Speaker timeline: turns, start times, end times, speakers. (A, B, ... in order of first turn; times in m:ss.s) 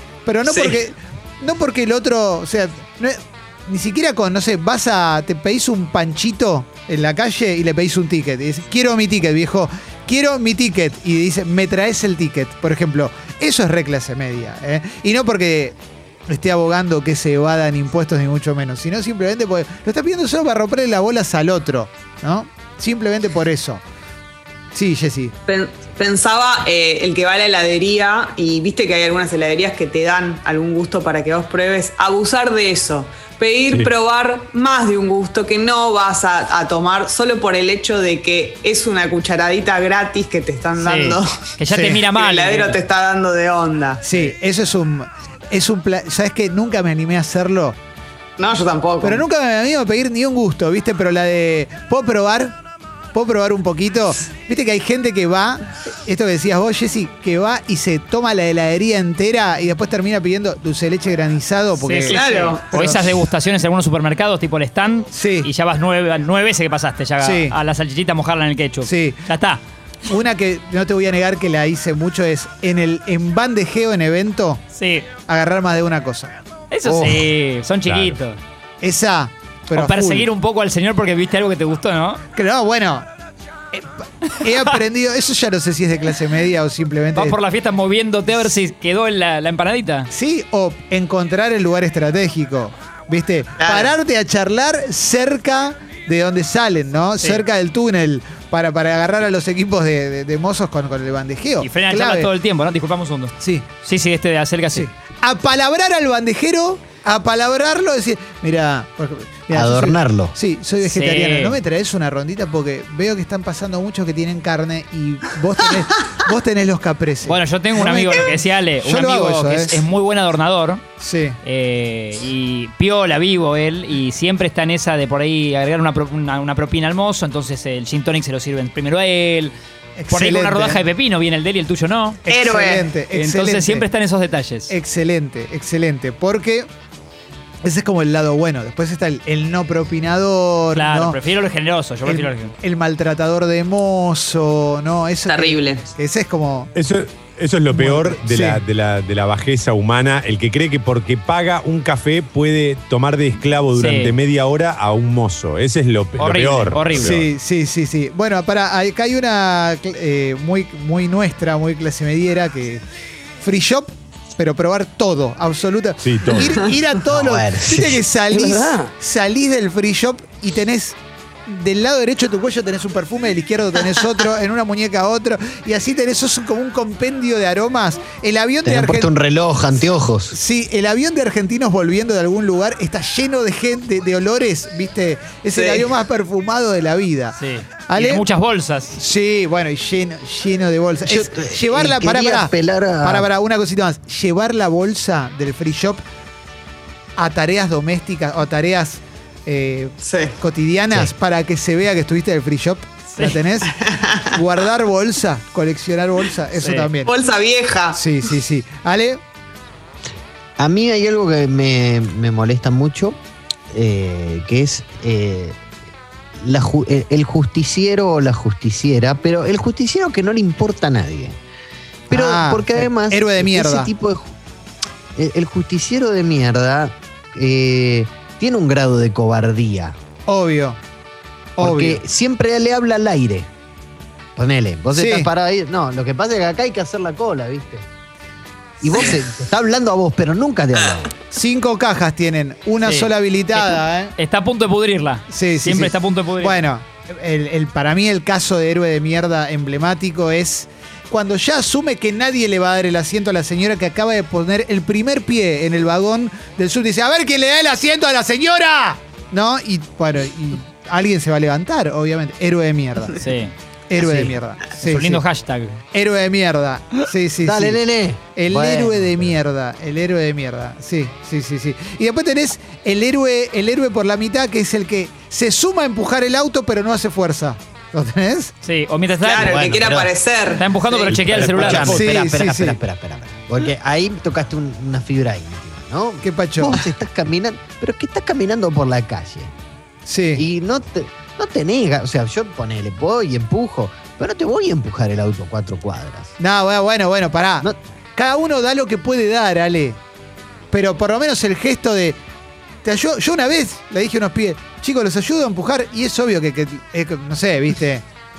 0:00.3-0:15.8 A
0:00.5-0:00.8 B
0:16.3-0:23.8 A
0:24.7-0:25.3 A
0:25.5-0:41.3 B
0:40.8-0:42.8 C
0:41.7-0:42.0 A
0:42.1-0:44.0 B
0:44.0-0:47.8 A
0:48.4-0:49.2 B
0:49.0-0:52.6 A
0:53.1-1:03.2 A
1:01.8-1:09.6 C
1:02.1-1:02.6 B
1:05.1-1:05.5 A
1:07.2-1:07.6 A
1:08.8-1:09.3 A
1:10.1-1:14.6 A
1:14.8-1:15.1 C
1:15.3-1:16.4 A
1:16.7-1:18.4 C
1:16.9-1:17.2 A
1:17.8-1:18.2 D
1:18.8-1:20.3 A
1:19.8-1:22.2 C
1:22.4-1:23.1 A
1:23.7-1:27.4 A
1:27.2-1:30.1 C
1:30.1-1:42.3 A
1:41.6-1:44.9 C
1:43.4-1:43.7 A
1:44.7-1:59.8 A
1:49.5-1:50.4 E
1:50.8-1:51.6 C
1:57.2-2:00.8 C
2:01.0-2:01.4 A
2:01.4-2:09.5 C
2:10.0-2:10.8 A
2:10.1-2:12.2 C
2:12.3-2:13.9 A
2:12.3-2:12.9 B
2:13.1-2:14.7 C
2:14.7-2:16.7 A
2:17.6-2:21.2 A
2:20.8-2:22.5 C
2:22.0-2:26.7 A
2:25.3-2:25.9 B
2:26.8-2:37.3 D
2:27.7-2:28.6 A
2:33.8-2:34.1 C
2:36.2-2:37.2 C
2:37.0-2:42.8 A
2:43.4-2:59.1 A
2:46.0-2:46.7 D
2:47.0-2:48.9 E
2:58.6-3:00.4 E
3:00.3-3:07.4 A
3:05.6-3:05.9 B
3:07.4-3:09.0 C
3:07.9-3:08.2 A
3:09.0-3:16.0 A
3:11.0-3:13.3 E
3:17.2-3:23.7 A
3:20.0-3:20.4 B
3:23.7-3:24.4 B
3:24.3-3:27.1 A
3:26.6-3:26.9 C
3:27.0-3:28.0 B
3:27.9-3:29.2 A
3:30.6-3:33.2 E
3:33.7-3:35.6 E
3:36.4-3:41.4 E
3:42.1-3:43.9 A
3:42.1-3:44.3 E
3:45.2-3:50.0 E
3:50.3-3:50.8 A
3:51.6-3:52.0 A
3:51.6-3:53.5 E
3:54.4-3:57.9 E
3:55.0-3:55.3 A
3:58.8-4:01.1 E
4:01.3-4:04.1 A
4:02.8-4:06.6 C
4:05.3-4:23.2 A
4:23.2-4:23.5 C
4:23.9-4:25.2 A
4:24.0-4:24.4 E
4:24.8-4:25.8 C
4:25.9-4:27.8 A
4:27.4-4:29.4 E
4:28.4-4:38.5 A
4:38.6-4:39.7 C
4:39.2-4:40.7 B
4:39.4-4:40.2 E
4:40.6-4:42.0 C
4:41.0-4:42.1 D
4:41.4-4:49.5 E
4:41.8-4:42.8 A
4:46.2-4:46.8 A
4:50.1-4:50.4 A
4:50.4-4:56.3 E
4:56.4-5:00.0 A
5:00.7-5:02.2 A
5:02.8-5:08.0 A